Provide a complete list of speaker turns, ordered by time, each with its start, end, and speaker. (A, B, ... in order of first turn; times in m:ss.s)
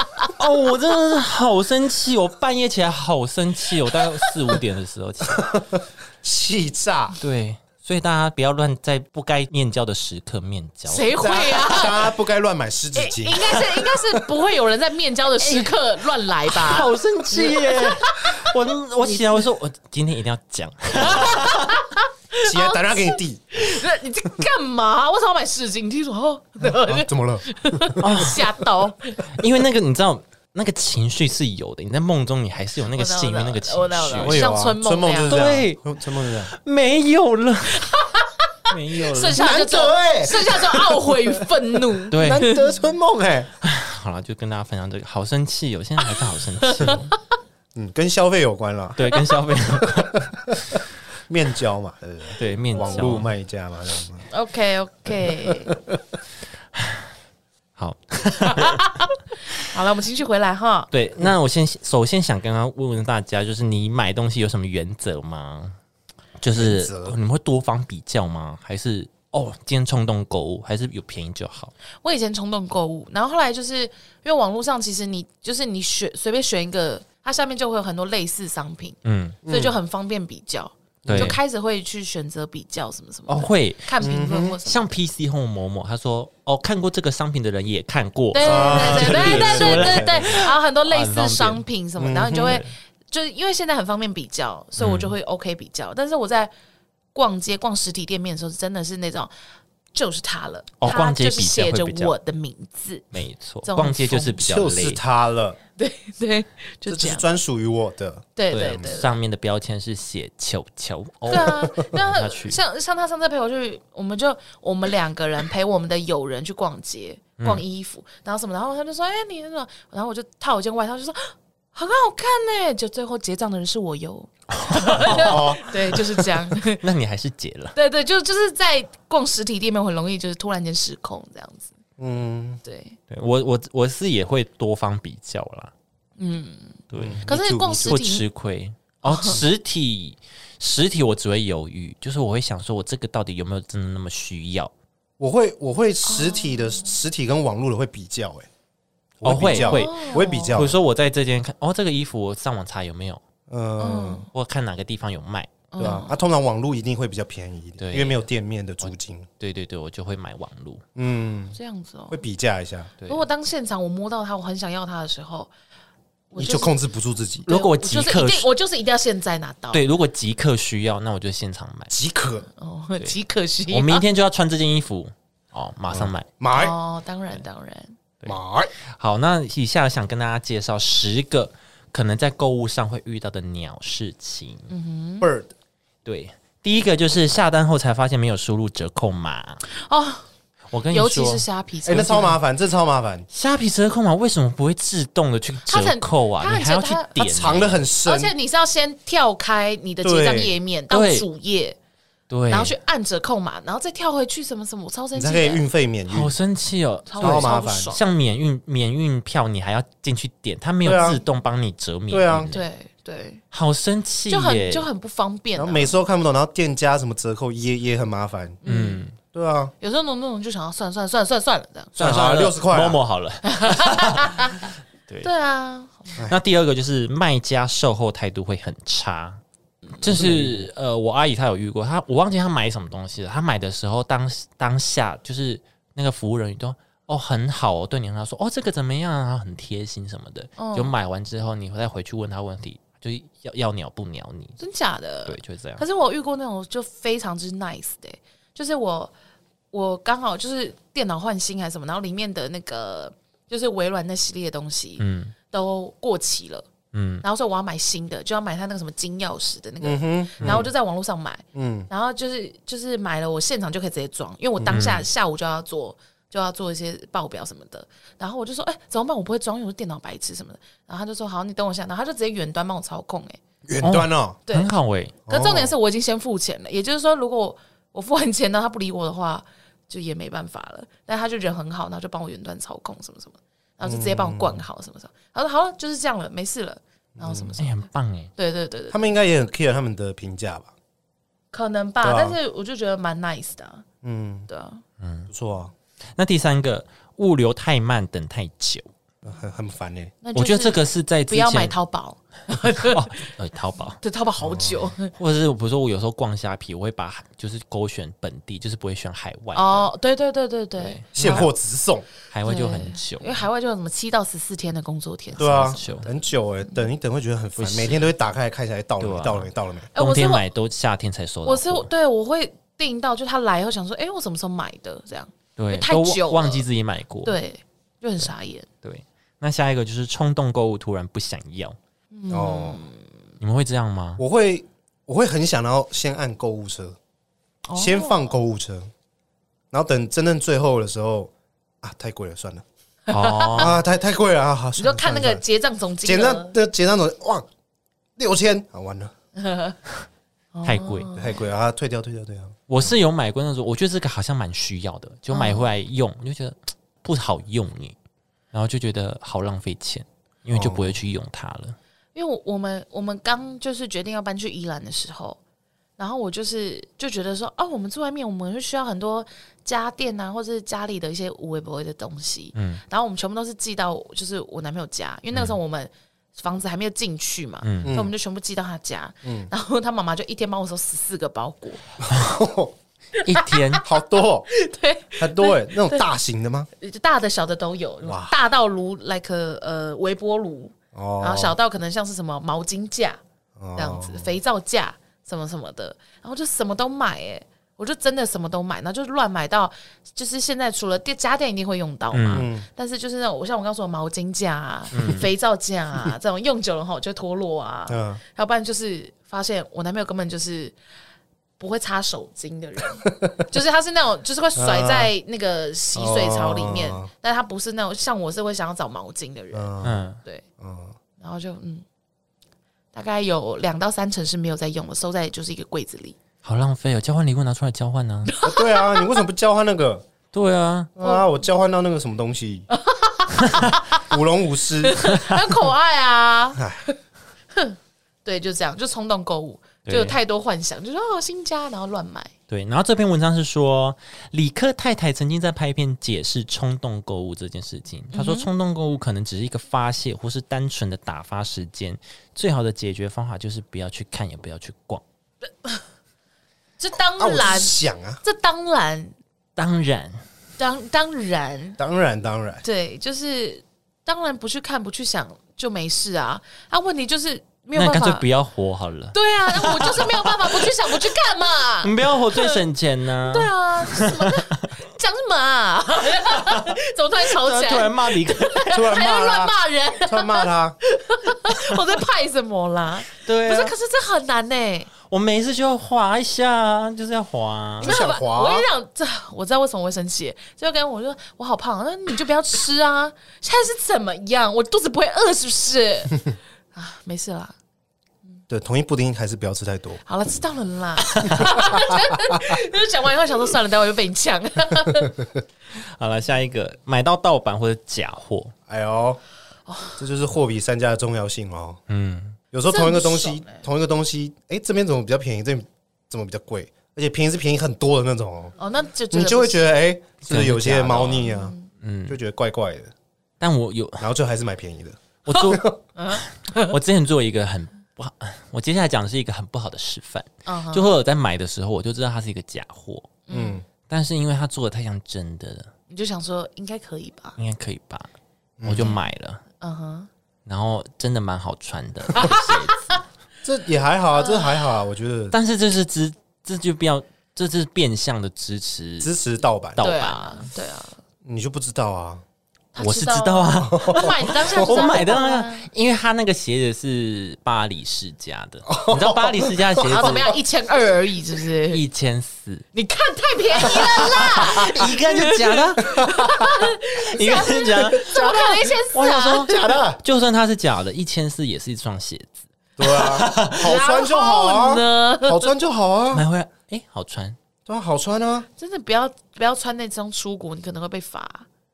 0:00.3-0:05.6 A
0:05.3-0:07.2 B
0:07.2-0:11.2 A
0:10.8-0:12.1 C
0:11.1-0:14.2 B
0:12.9-0:18.5 C
0:15.4-0:15.8 A
0:16.4-0:21.8 A
0:19.0-0:19.4 C
0:21.0-0:21.3 B
0:21.0-0:29.2 C
0:22.4-0:23.4 B
0:26.6-0:28.2 B
0:28.0-0:28.6 A
0:29.2-0:34.4 A
0:32.9-0:35.4 C
0:34.2-0:36.5 B
0:35.3-0:37.9 A
0:37.7-0:42.7 C
0:38.7-0:39.5 A
0:39.3-0:43.5 B
0:42.1-0:42.5 A
0:43.6-0:47.1 A
0:46.6-0:47.1 C
0:47.7-0:50.8 B
0:49.0-0:50.8 A
0:51.3-0:54.2 B
0:52.4-0:53.3 A
0:52.8-0:53.0 C
0:54.3-0:55.8 C
0:55.5-0:56.0 B
0:56.7-0:57.1 A
0:57.8-0:58.9 A
0:58.4-1:00.9 C
1:00.9-1:05.8 A
1:06.4-1:11.7 A
1:06.5-1:07.2 B
1:12.0-1:24.8 C
1:19.0-1:19.4 A
1:19.4-1:19.8 B
1:21.0-1:21.4 B
1:21.0-1:21.4 A
1:23.3-1:31.6 A
1:24.0-1:24.5 B
1:28.3-1:36.5 C
1:28.4-1:30.4 B
1:32.0-1:32.6 B
1:32.3-1:32.7 A
1:34.8-1:35.1 A
1:37.1-1:39.3 C
1:39.9-1:43.1 C
1:40.8-1:42.1 A
1:43.1-1:45.0 A
1:43.6-1:44.4 C
1:44.4-1:45.6 B
1:45.8-1:47.2 C
1:46.9-1:48.3 B
1:48.4-1:49.1 C
1:48.5-1:52.6 A
1:51.3-1:51.5 B
1:51.3-2:06.8 C
2:04.5-2:05.6 A
2:05.0-2:06.0 B
2:06.2-2:07.8 A
2:07.7-2:11.7 C
2:12.0-2:12.6 B
2:12.6-2:13.0 C
2:13.1-2:15.7 A
2:16.2-2:18.2 C
2:16.9-2:17.3 A
2:17.0-2:18.0 B
2:17.8-2:24.7 A
2:19.0-2:19.4 C
2:25.2-2:28.5 B
2:26.0-2:26.9 C
2:29.2-2:30.8 B
2:29.2-2:33.2 A
2:29.5-2:30.6 C
2:33.5-2:34.2 B
2:33.8-2:34.3 C
2:34.3-2:35.6 A
2:35.7-2:36.2 C
2:35.8-2:39.3 B
2:37.8-2:38.2 A
2:38.8-2:40.8 A
2:41.0-2:41.6 B
2:41.5-2:42.2 C
2:42.1-2:42.9 B
2:43.1-2:45.5 C
2:46.3-2:46.8 C
2:46.3-2:47.5 B
2:47.4-2:49.8 C
2:47.5-2:48.5 A
2:49.7-2:51.9 A
2:51.9-2:52.5 B
2:52.6-2:54.0 C
2:53.7-2:56.3 A
2:55.9-2:56.8 B
2:56.5-2:58.0 C
2:58.2-3:04.7 A
2:58.2-2:58.7 B
3:04.7-3:05.3 C
3:05.2-3:05.5 B
3:06.0-3:09.6 A
3:09.7-3:10.2 C
3:10.7-3:11.4 A
3:10.9-3:12.4 C
3:11.8-3:13.2 B
3:13.3-3:17.8 A
3:15.7-3:17.1 C
3:17.2-3:18.3 B
3:18.0-3:21.8 C
3:20.0-3:20.6 B
3:20.9-3:21.3 A
3:22.3-3:22.7 A
3:22.5-3:25.6 C
3:25.1-3:26.3 B
3:26.1-3:32.6 A
3:27.1-3:28.0 C
3:27.2-3:27.9 B
3:30.8-3:31.2 B
3:32.1-3:32.5 B
3:32.5-3:33.4 C
3:33.5-3:34.9 A
3:34.3-3:36.0 C
3:35.6-3:38.6 B
3:38.6-3:39.0 C
3:38.6-3:39.2 A
3:39.3-3:39.7 B
3:39.8-3:42.0 C
3:42.0-3:43.0 B
3:42.0-3:44.5 A
3:43.4-3:44.7 C
3:45.2-3:46.2 C
3:46.2-3:49.4 A
3:50.0-4:04.6 A
3:50.0-3:50.7 B
4:00.6-4:00.9 C
4:04.6-4:09.1 C
4:05.2-4:05.8 A
4:09.7-4:16.7 C
4:15.0-4:15.3 A
4:16.9-4:17.2 A
4:17.2-4:33.4 C
4:19.8-4:20.7 B
4:20.4-4:20.6 A
4:21.5-4:21.9 B
4:24.6-4:24.8 B
4:24.7-4:25.1 A
4:33.6-4:34.4 B
4:33.8-4:35.2 A
4:35.3-4:35.7 B
4:35.3-4:47.8 C
4:43.8-4:44.6 B
4:47.2-4:47.5 B
4:47.6-4:48.3 A
4:48.4-4:49.0 C
4:48.9-4:50.7 B
4:51.5-4:53.8 C
4:52.0-4:52.4 B
4:54.0-4:54.5 B
4:54.5-4:54.8 C
4:55.0-4:55.3 A
4:55.3-4:55.7 B
4:56.2-4:58.9 A
4:59.2-5:00.1 B
5:00.2-5:03.1 C
5:00.3-5:01.7 A
5:02.8-5:04.0 A
5:04.0-5:05.1 C
5:04.4-5:04.9 B
5:05.1-5:09.9 A
5:09.5-5:11.5 C
5:10.8-5:11.5 A
5:11.1-5:12.0 B
5:12.3-5:13.4 A
5:12.4-5:16.1 C
5:15.4-5:16.1 A
5:15.4-5:19.9 B
5:17.6-5:18.1 A
5:19.0-5:21.9 A
5:19.9-5:20.4 C
5:21.4-5:26.6 C
5:25.6-5:27.4 A
5:27.2-5:28.7 C
5:28.8-5:31.8 A
5:32.1-5:33.0 C
5:32.3-5:32.8 B
5:33.4-5:34.2 A
5:34.2-5:37.0 B
5:37.6-5:38.3 C
5:37.8-5:38.9 B
5:39.7-5:42.6 B
5:43.1-5:43.7 C
5:43.1-5:43.8 A
5:43.6-5:45.4 B
5:44.8-5:46.6 C
5:46.0-5:47.5 B
5:48.2-5:49.1 B
5:49.4-5:49.8 C
5:50.5-5:51.4 C
5:50.6-5:51.1 A
5:51.2-5:52.9 B
5:52.7-5:58.0 A
5:55.3-5:55.7 C
5:58.5-6:01.8 A
6:00.5-6:01.0 B
6:02.1-6:05.4 C
6:06.0-6:21.8 C
6:12.5-6:12.8 A
6:17.6-6:17.9 A
6:17.8-6:18.1 B
6:19.2-6:19.5 B
6:22.0-6:22.7 B
6:23.2-6:23.8 C
6:23.2-6:23.8 A
6:23.8-6:24.5 B
6:24.5-6:26.0 C
6:25.2-6:26.7 B
6:26.8-6:33.2 C
6:28.0-6:28.3 B
6:30.9-6:31.6 B
6:33.6-6:34.3 B
6:33.8-6:50.7 C
6:42.1-6:42.5 A
6:42.3-6:42.7 B
6:44.9-6:45.3 A
6:47.9-6:48.2 B
6:51.6-6:59.7 C
6:53.0-6:53.3 B
6:54.6-6:55.1 B
6:56.0-6:57.1 B
6:59.5-7:00.0 B
6:59.8-7:00.2 A
7:00.6-7:00.9 B
7:01.2-7:01.8 C
7:02.9-7:06.2 C
7:06.4-7:08.3 A
7:08.3-7:09.2 C
7:08.4-7:10.0 B
7:10.3-7:10.9 A
7:11.0-7:12.7 B
7:11.0-7:11.2 C
7:12.7-7:14.0 C
7:14.0-7:15.0 B
7:14.8-7:17.0 C
7:16.6-7:16.8 B
7:17.5-7:22.3 C
7:19.8-7:20.2 A
7:22.5-7:35.0 A
7:28.1-7:28.5 C
7:36.8-7:39.1 C
7:37.2-7:38.2 B
7:39.6-7:40.2 A
7:40.6-7:41.8 C
7:41.8-7:42.6 B
7:42.6-7:48.2 C
7:47.7-7:51.0 A
7:49.1-7:52.6 C
7:51.8-7:54.6 A
7:53.2-8:04.9 C
7:56.3-7:58.8 A
7:58.7-8:00.8 B
8:03.2-8:03.7 A
8:05.1-8:08.0 A
8:07.8-8:08.7 B
8:07.8-8:17.5 C
8:18.5-8:20.0 B
8:20.0-8:25.2 C
8:21.1-8:21.5 A
8:25.7-8:28.5 A
8:28.7-8:29.2 B
8:29.7-8:30.0 C
8:30.0-8:31.8 B
8:31.9-8:32.4 A
8:32.5-8:38.5 B
8:32.6-8:33.6 C
8:38.6-8:39.7 C
8:39.1-8:41.5 B
8:40.3-8:42.2 A
8:41.2-8:41.7 C
8:42.1-8:42.9 B
8:43.4-8:44.1 A
8:44.0-8:45.7 B
8:45.2-8:53.2 A
8:46.0-8:46.7 C
8:50.4-8:50.9 C
8:53.3-8:53.6 C
8:53.3-8:53.6 B
8:53.9-8:55.7 A
8:55.9-8:57.4 C
8:57.4-8:58.1 A
8:58.6-8:58.9 B
8:58.6-8:59.4 A
8:59.6-9:00.1 C
9:00.4-9:02.9 A
9:02.1-9:03.0 C
9:03.4-9:05.3 B
9:04.2-9:04.6 C
9:05.3-9:09.2 A
9:09.0-9:09.8 B
9:09.8-9:10.4 A
9:09.8-9:11.0 C
9:11.2-9:12.2 B
9:12.7-9:15.7 C
9:12.8-9:20.3 A
9:13.6-9:15.1 B
9:18.7-9:20.3 B
9:19.8-9:21.8 C
9:21.7-9:22.7 A
9:22.7-9:29.5 C
9:23.6-9:33.7 A
9:25.9-9:26.4 B
9:27.8-9:28.8 B
9:29.4-9:30.0 B
9:32.8-9:36.2 B
9:33.6-9:35.5 C
9:36.1-9:37.4 A
9:37.6-9:38.5 B
9:38.6-9:41.5 C